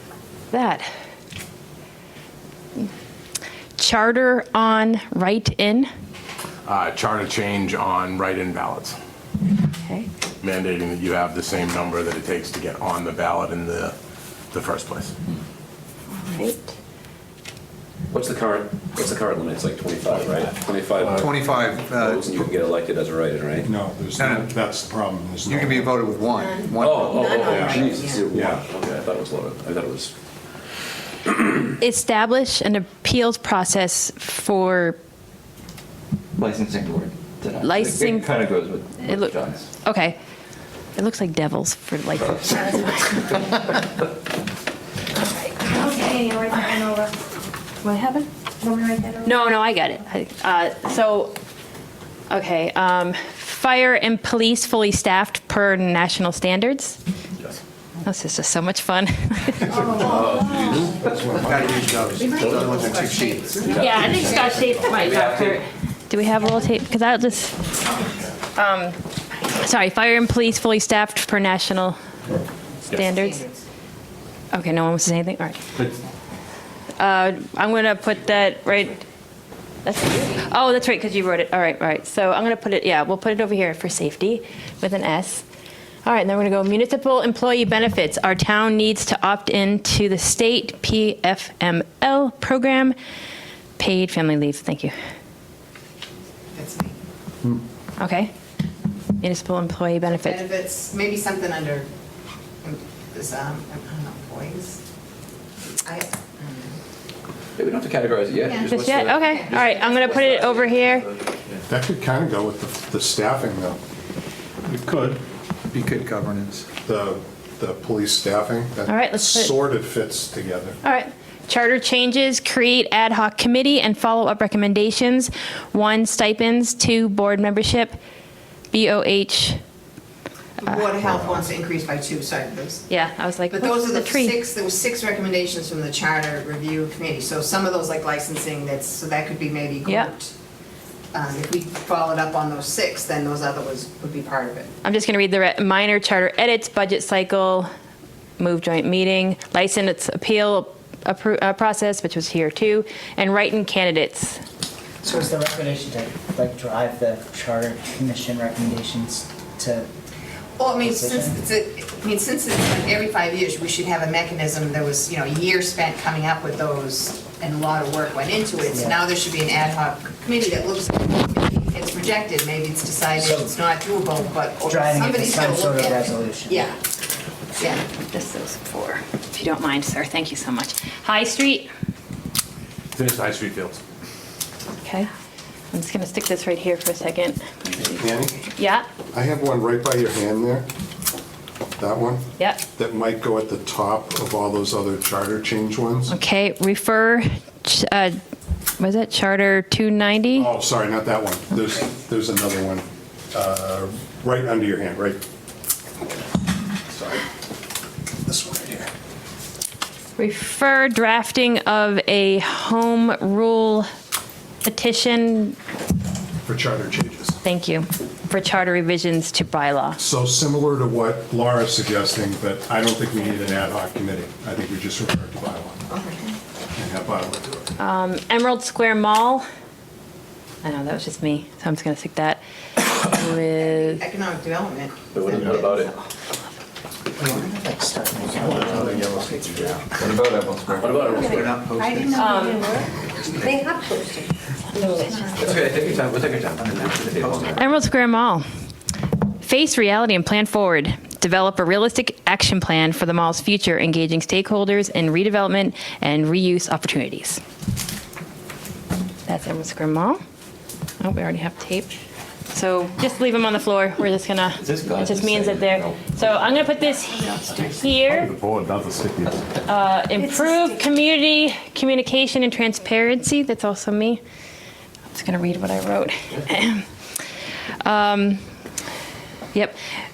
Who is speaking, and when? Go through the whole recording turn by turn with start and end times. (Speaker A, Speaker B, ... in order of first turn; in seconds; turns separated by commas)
Speaker A: 0.5-0.9, Speaker A: 3.8-5.9, Speaker B: 6.7-9.0, Speaker A: 9.7-10.1, Speaker B: 10.4-13.9, Speaker B: 14.5-15.1, Speaker A: 16.2-16.7, Speaker C: 18.1-23.7, Speaker D: 21.0-21.3, Speaker E: 21.1-22.5, Speaker D: 23.6-26.0, Speaker E: 24.2-24.5, Speaker E: 25.4-27.9, Speaker F: 26.6-28.3, Speaker C: 26.8-30.1, Speaker D: 28.3-28.6, Speaker A: 31.8-35.0, Speaker G: 36.4-39.6, Speaker A: 37.6-38.4, Speaker A: 39.0-40.2, Speaker A: 41.0-43.5, Speaker A: 45.3-46.9, Speaker H: 45.6-47.1, Speaker A: 47.8-48.3, Speaker H: 48.6-49.3, Speaker A: 49.2-51.3, Speaker A: 52.3-57.0, Speaker A: 58.0-59.8, Speaker D: 59.7-64.9, Speaker C: 60.0-61.3, Speaker E: 61.4-63.7, Speaker F: 62.2-62.6, Speaker F: 63.5-63.7, Speaker C: 63.5-64.5, Speaker A: 63.7-67.7, Speaker G: 65.2-65.5, Speaker A: 68.5-69.0, Speaker A: 69.5-72.0, Speaker A: 72.9-73.4, Speaker F: 72.9-73.6, Speaker A: 74.5-75.7, Speaker A: 77.0-79.0, Speaker A: 79.8-85.4, Speaker A: 86.0-93.0, Speaker A: 93.8-94.9, Speaker F: 96.5-97.0, Speaker A: 98.0-98.3, Speaker A: 99.2-100.4, Speaker F: 100.1-101.9, Speaker F: 102.6-104.8, Speaker F: 105.8-106.8, Speaker C: 107.6-111.6, Speaker F: 108.4-110.1, Speaker A: 108.8-111.1, Speaker D: 111.7-113.8, Speaker D: 114.7-115.2, Speaker E: 115.7-116.7, Speaker D: 116.8-120.8, Speaker A: 118.9-119.5, Speaker A: 120.8-128.0, Speaker A: 128.7-129.6, Speaker F: 130.6-132.9, Speaker D: 131.0-131.5, Speaker A: 132.9-134.4, Speaker F: 133.5-140.3, Speaker A: 139.9-140.1, Speaker F: 141.1-144.7, Speaker A: 144.8-147.7, Speaker A: 148.4-154.4, Speaker I: 155.0-159.9, Speaker F: 160.6-176.8, Speaker I: 160.8-161.4, Speaker I: 168.7-169.0, Speaker I: 173.2-173.6, Speaker I: 174.6-176.7, Speaker A: 177.9-181.7, Speaker B: 182.9-183.8, Speaker A: 184.8-185.1, Speaker A: 185.7-188.8, Speaker D: 188.0-188.4, Speaker D: 189.1-190.7, Speaker D: 191.8-196.2, Speaker A: 196.1-198.2, Speaker A: 198.8-200.5, Speaker D: 200.3-205.2, Speaker D: 206.9-207.2, Speaker D: 208.3-208.9, Speaker A: 210.2-213.9, Speaker A: 214.6-215.6, Speaker D: 216.4-217.4, Speaker A: 217.4-220.0, Speaker D: 220.0-225.8, Speaker F: 225.9-226.4, Speaker D: 226.8-227.7, Speaker A: 227.8-229.4, Speaker A: 230.6-232.4, Speaker A: 232.9-234.0, Speaker F: 233.6-235.9, Speaker C: 235.1-236.0, Speaker I: 237.2-239.5, Speaker D: 238.4-239.8, Speaker G: 240.0-240.9, Speaker C: 240.7-241.7, Speaker E: 241.3-242.2, Speaker F: 241.8-244.3, Speaker A: 242.1-242.7, Speaker H: 242.2-242.8, Speaker H: 244.8-245.1, Speaker A: 244.8-245.3, Speaker F: 245.1-245.6, Speaker C: 245.4-247.7, Speaker A: 247.5-248.4, Speaker A: 249.4-257.4, Speaker A: 259.3-260.2, Speaker A: 261.0-261.9, Speaker A: 262.5-268.3, Speaker G: 264.6-265.9, Speaker F: 267.1-267.9, Speaker B: 268.1-269.3, Speaker D: 268.7-269.1, Speaker A: 269.7-274.2, Speaker F: 270.3-270.7, Speaker A: 275.1-276.9, Speaker A: 277.8-278.4